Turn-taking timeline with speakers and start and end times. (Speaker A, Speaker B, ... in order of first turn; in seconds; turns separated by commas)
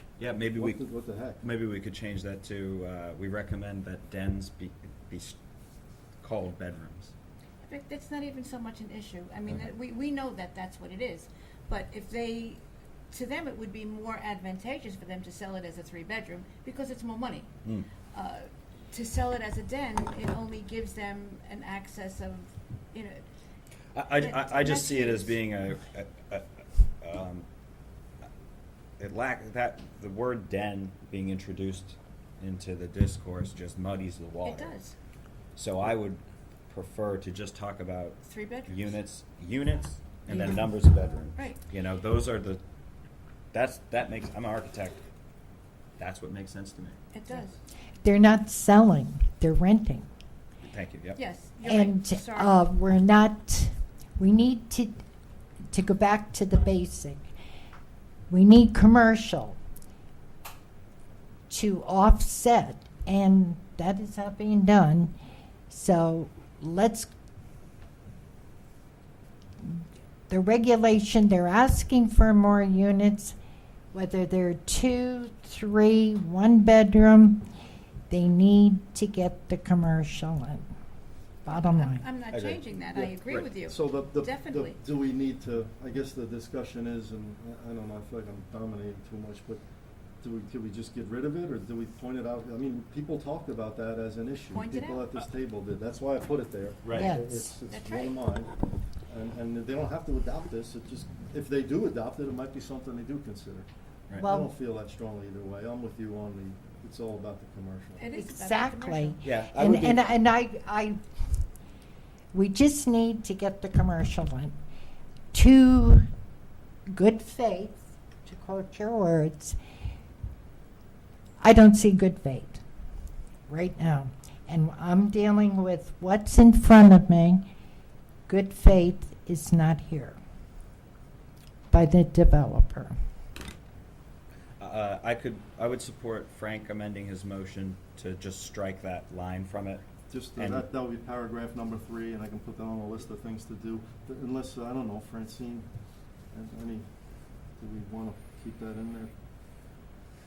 Speaker A: 0.2-5.4, Speaker B: 0.4-1.4, Speaker A: 6.2-7.1, Speaker C: 7.7-17.5, Speaker C: 18.1-23.2, Speaker A: 23.9-26.5, Speaker C: 24.2-25.3, Speaker A: 27.0-27.5, Speaker A: 29.0-34.7, Speaker C: 34.4-34.9, Speaker A: 35.6-42.6, Speaker C: 38.2-39.0, Speaker A: 43.5-45.0, Speaker A: 46.0-47.0, Speaker C: 47.1-47.6, Speaker D: 48.0-50.1, Speaker A: 50.6-51.2, Speaker C: 51.2-52.6, Speaker D: 51.6-55.0, Speaker D: 55.7-57.3, Speaker D: 58.3-59.6, Speaker D: 61.5-65.1, Speaker D: 65.7-67.1, Speaker D: 70.3-73.3, Speaker D: 73.9-77.4, Speaker D: 78.1-80.7, Speaker D: 81.5-82.0, Speaker C: 81.5-84.8, Speaker A: 82.3-82.6, Speaker B: 83.0-89.6, Speaker B: 90.2-98.6, Speaker C: 94.5-95.1, Speaker A: 96.8-97.1, Speaker D: 96.9-97.5, Speaker C: 97.7-98.2, Speaker B: 99.1-108.0, Speaker D: 104.2-104.5, Speaker C: 108.0-109.2, Speaker D: 108.1-111.0, Speaker A: 109.2-110.1, Speaker D: 112.3-114.5, Speaker D: 115.3-116.0, Speaker D: 116.9-119.6, Speaker D: 121.4-122.6, Speaker D: 123.5-127.4, Speaker D: 128.3-130.2, Speaker D: 131.7-132.9, Speaker A: 134.6-139.8, Speaker B: 140.1-145.7, Speaker A: 140.4-140.7, Speaker B: 146.3-146.9, Speaker B: 147.6-149.1